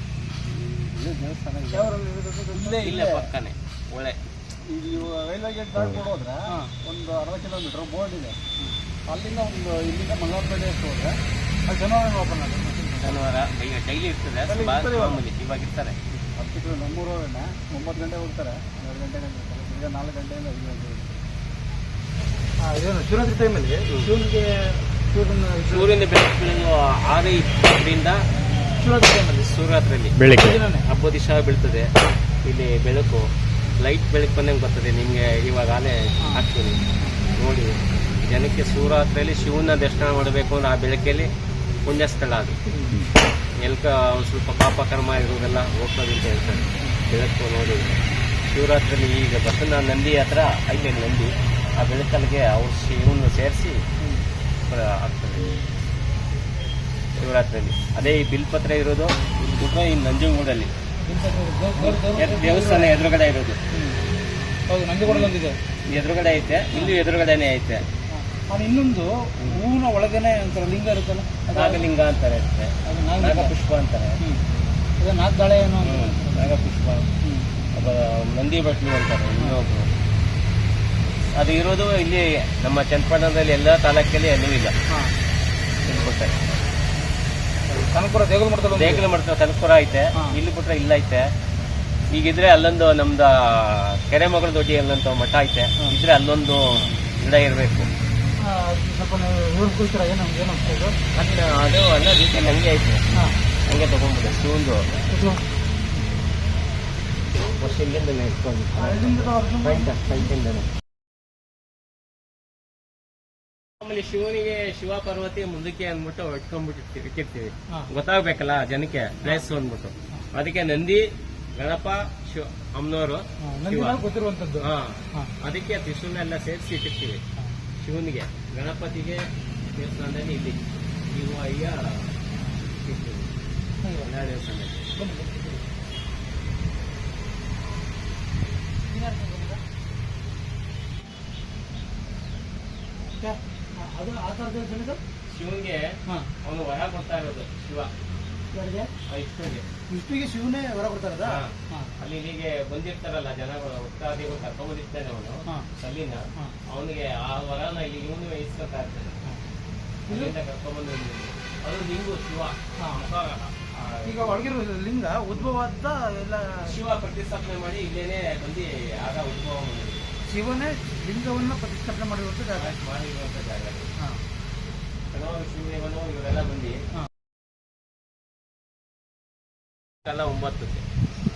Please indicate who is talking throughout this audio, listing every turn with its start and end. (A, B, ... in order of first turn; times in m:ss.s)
0:00.4-0:01.9 A
0:01.7-0:03.1 B
0:02.6-0:04.2 C
0:02.7-0:03.3 A
0:04.7-0:08.4 A
0:09.1-0:11.2 A
0:11.7-0:13.2 B
0:13.0-0:16.0 C
0:14.5-0:14.8 B
0:14.6-0:15.2 A
0:16.4-0:21.2 A
0:22.6-0:26.0 B
0:25.7-0:28.2 C
0:28.8-0:29.5 B
0:29.5-0:31.9 C
0:30.3-0:30.9 B
0:32.5-0:33.3 C
0:33.8-0:36.8 C
0:37.4-0:41.3 C
0:41.9-0:42.6 C
0:42.7-0:43.1 B
0:43.6-0:53.8 C
0:54.7-0:55.7 C
0:57.2-1:00.7 C
1:01.0-1:03.0 B
1:01.8-1:03.6 C
1:03.7-1:04.0 B
1:04.7-1:05.6 B
1:05.1-1:05.3 C
1:05.9-1:07.8 C
1:08.1-1:11.8 B
1:11.5-1:14.2 C
1:12.8-1:13.5 B
1:15.0-1:16.5 B
1:15.8-1:17.0 C
1:17.2-1:17.6 B
1:17.7-1:19.9 C
1:21.4-1:24.7 C
1:25.8-1:26.4 C
1:27.7-1:29.0 B
1:28.7-1:31.2 C
1:32.1-1:37.9 C
1:38.4-1:41.0 B
1:41.1-1:43.0 C
1:43.7-1:44.8 C
1:45.1-1:45.4 B
1:47.4-1:50.7 C
1:48.8-1:50.0 B
1:53.8-2:04.0 C
2:03.4-2:05.3 B
2:04.6-2:07.2 C
2:07.8-2:09.2 C
2:09.8-2:10.6 C
2:11.1-2:12.1 C
2:12.8-2:13.3 C
2:13.8-2:14.1 B
2:14.0-2:14.9 C
2:15.0-2:15.6 B
2:18.9-2:19.6 B
2:23.0-2:25.0 B
2:25.3-2:25.9 C
2:26.4-2:27.9 C
2:28.5-2:28.9 B
2:29.1-2:29.6 C
2:29.9-2:31.9 B
2:31.2-2:39.1 C
2:40.1-2:40.3 B
2:40.1-2:44.4 C
2:42.8-2:43.1 B
2:44.0-2:46.8 B
2:46.7-2:50.0 C
2:50.3-2:52.7 B
2:52.6-2:53.9 C
2:55.1-2:56.8 C
3:00.0-3:00.8 C